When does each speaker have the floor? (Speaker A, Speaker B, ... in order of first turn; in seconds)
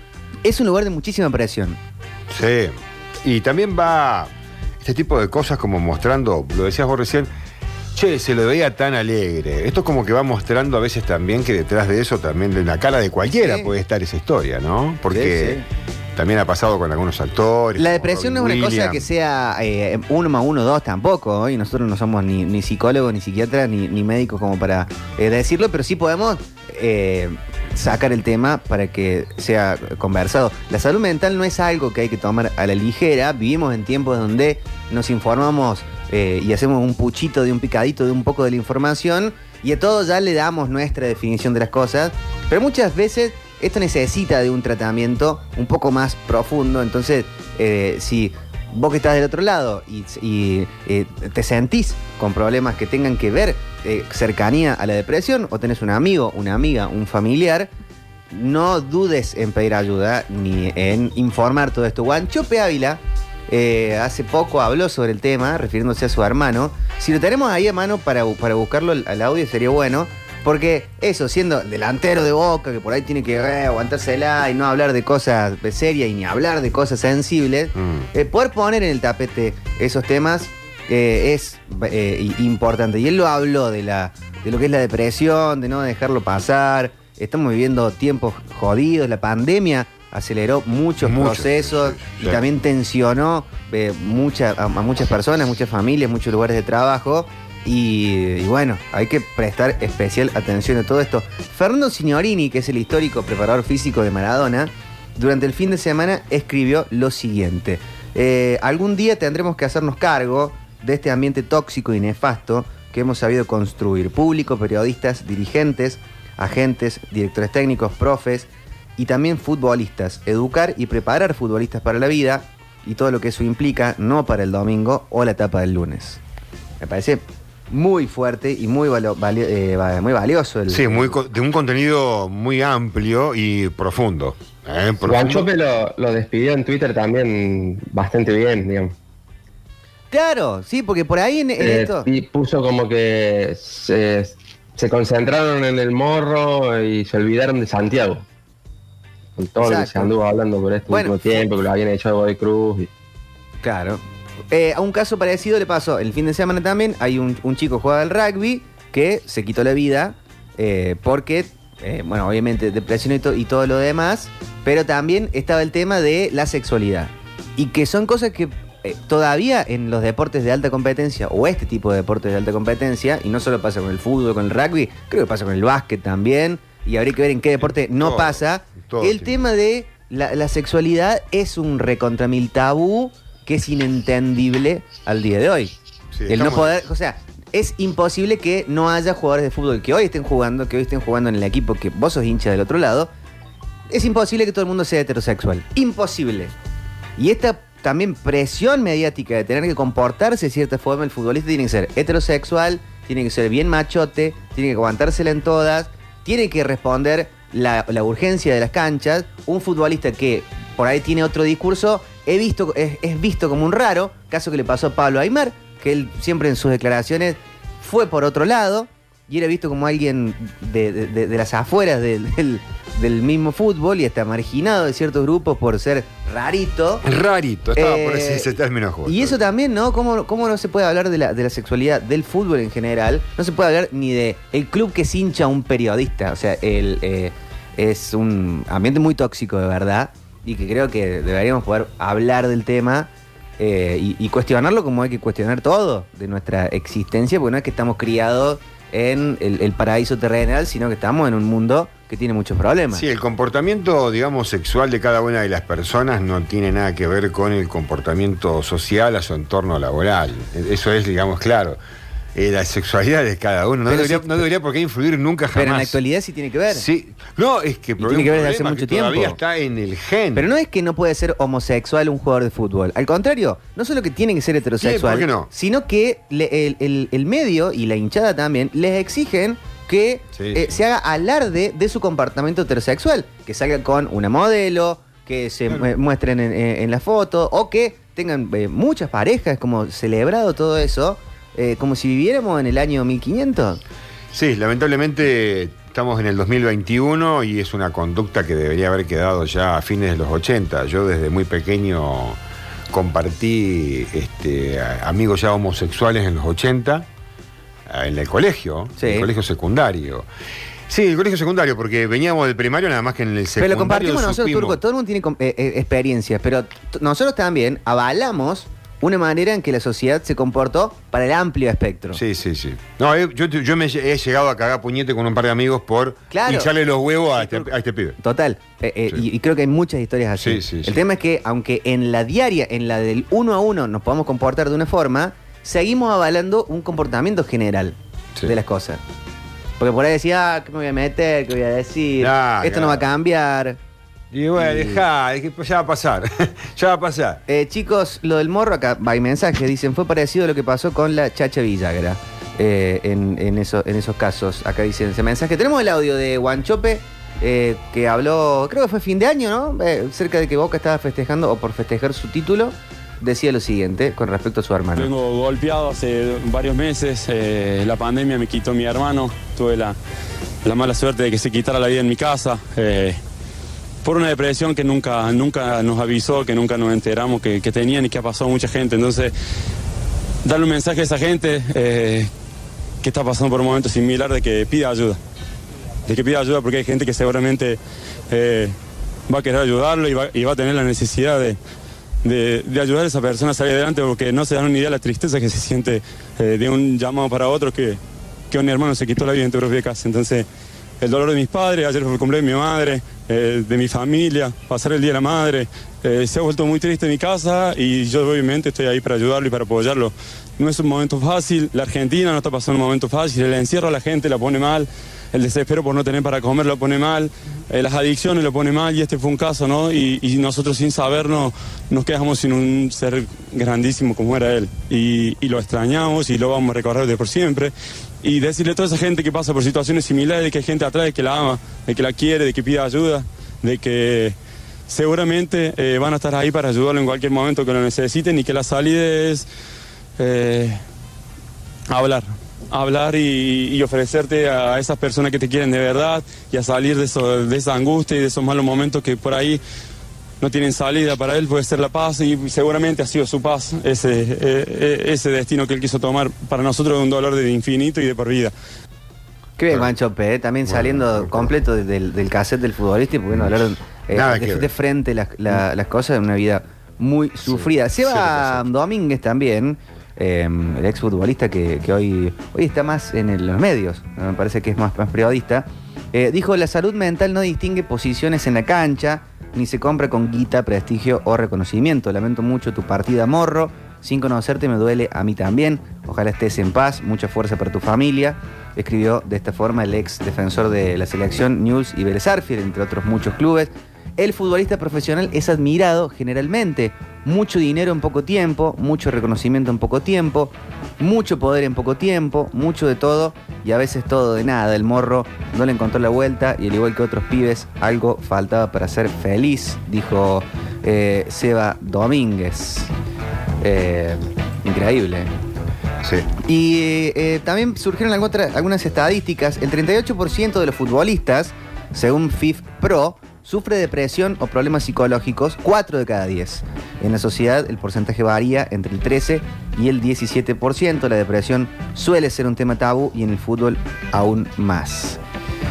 Speaker A: 0.4-1.8, 13.4-13.7, 15.1-15.6, 17.8-57.7, 58.3-126.2, 126.8-131.2, 140.1-142.1, 149.6-150.1, 150.9-151.2, 153.6-185.7, 186.3-193.1, 193.9-196.5, 197.2-227.0, 227.8-253.0, 263.9-264.5, 265.5-266.9, 268.0-269.4, 270.4-293.8, 309.0-309.3, 313.6-322.2, 326.3-326.7, 327.4-339.0, 339.8-343.8, 344.6-345.0, 347.5-365.1, 459.6-512.9, 513.6-515.3, 516.4-535.2
Speaker B: 2.3-4.3, 4.8-7.3, 8.0-15.6, 16.2-19.0, 77.8-78.1, 91.0-92.4, 130.7-135.5, 177.6-179.5, 186.1-186.8, 227.1-229.4, 252.9-261.8, 262.4-266.0, 266.7-270.5, 274.8-275.5, 280.4-280.6, 294.3-302.4, 302.9-307.1, 307.9-310.3, 310.9-314.8, 322.1-328.2, 330.4-331.0, 342.2-343.0, 344.3-347.4, 460.7-461.5, 464.1-464.7, 468.0-468.6, 516.0-516.3
Speaker C: 135.0-138.9, 141.6-148.2, 149.4-152.9
Speaker D: 365.0-370.0, 370.6-373.2, 374.0-379.3, 380.4-382.3, 383.0-385.2, 386.1-387.8, 388.3-388.7, 389.3-391.6, 392.2-398.0, 398.5-400.5, 401.0-434.4, 434.9-439.5, 440.2-440.8, 441.9-449.6, 450.4-458.5